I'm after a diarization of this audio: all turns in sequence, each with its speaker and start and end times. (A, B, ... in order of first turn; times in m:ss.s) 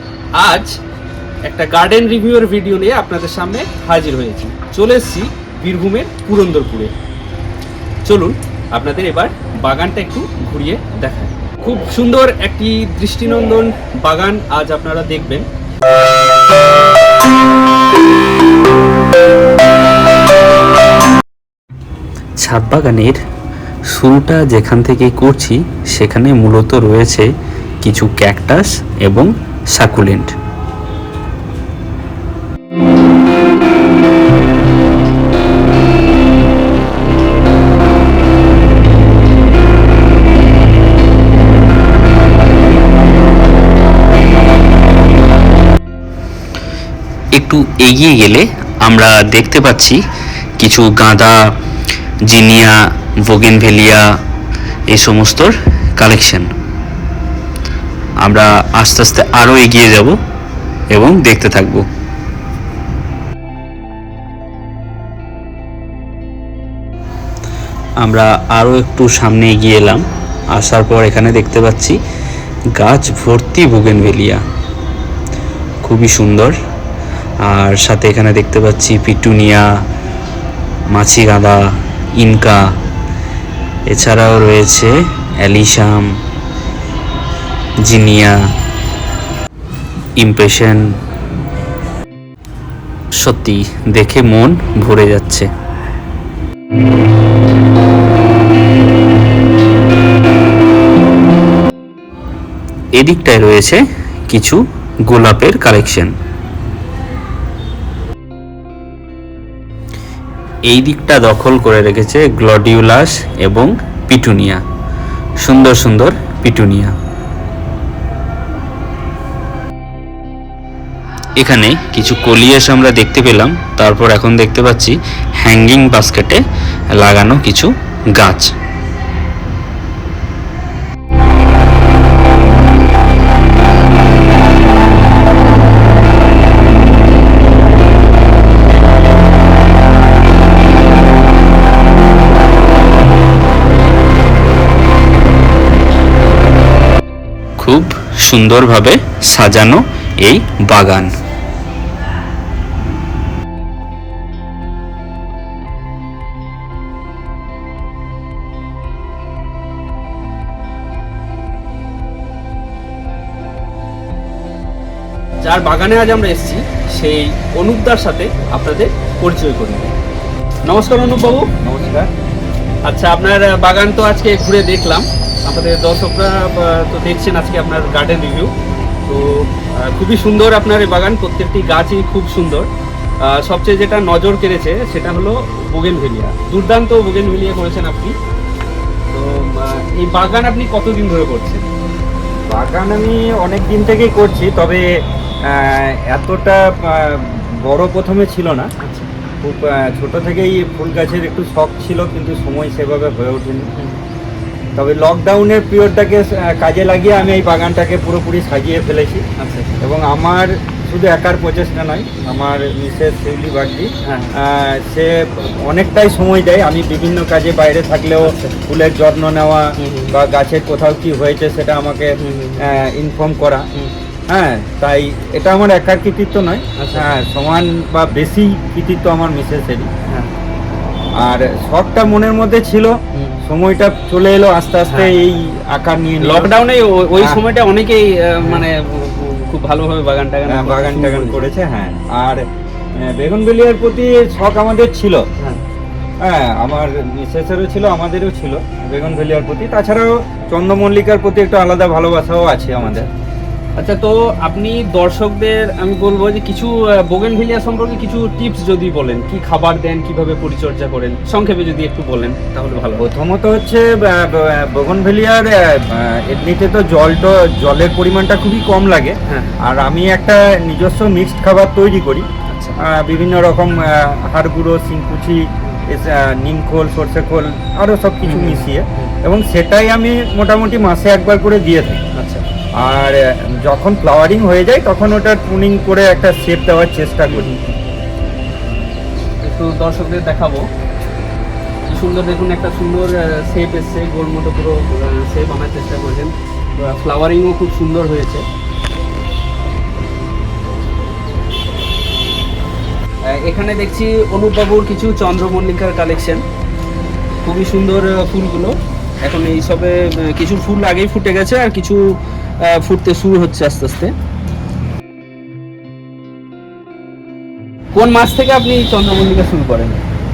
0:00.4-0:00.8 A
0:01.5-0:06.9 A
0:08.1-0:15.5 A
0:22.4-0:23.2 B
0:23.9-0:27.3 B
0:27.8-0:30.3 B
0:47.4-0:50.0 B
0:50.6-0:51.4 B
0:52.3-0:54.1 B
0:54.9-0:56.5 B
0:58.2-1:00.2 B
1:00.9-1:01.9 B
1:08.0-1:10.0 B
1:10.6-1:12.0 B
1:12.8-1:14.4 B
1:15.8-1:16.6 B
1:17.5-1:19.7 B
1:20.9-1:21.6 B
1:22.2-1:22.6 B
1:23.9-1:26.1 B
1:27.8-1:28.4 B
1:30.2-1:30.8 B
1:33.2-1:35.5 B
1:43.0-1:46.1 B
1:50.7-1:54.6 B
1:55.4-1:56.9 B
2:01.4-2:06.4 B
2:06.9-2:08.5 B
2:27.6-2:31.1 B
2:45.4-2:49.9 A
2:50.6-2:51.5 A
2:51.2-2:52.1 C
2:52.9-2:58.5 A
2:59.1-3:02.7 A
3:03.2-3:08.2 A
3:09.1-3:11.7 A
3:12.5-3:14.8 C
3:15.5-3:18.7 C
3:18.8-3:19.1 A
3:19.4-3:23.7 C
3:23.8-3:24.0 A
3:24.8-3:29.2 C
3:29.4-3:29.8 A
3:29.8-3:43.6 C
3:34.0-3:34.3 A
3:38.2-3:38.6 A
3:39.8-3:40.1 A
3:42.2-3:42.6 A
3:44.3-3:49.9 C
3:46.8-3:47.0 A
3:50.1-3:50.3 A
3:51.2-3:56.5 C
3:54.9-3:55.2 A
3:56.2-4:01.4 A
3:57.2-3:57.4 C
4:00.5-4:02.4 C
4:03.0-4:05.2 C
4:06.2-4:13.1 C
4:13.8-4:23.1 A
4:23.0-4:32.3 C
4:29.3-4:29.6 A
4:32.5-4:32.8 A
4:32.9-4:42.0 C
4:38.2-4:39.2 A
4:42.2-4:42.4 A
4:42.8-4:47.5 C
4:47.3-4:47.8 A
4:49.4-4:50.7 A
4:51.9-4:58.4 A
5:03.3-5:06.4 A
5:07.4-5:08.7 A
5:09.2-5:14.1 A
5:17.9-5:20.0 A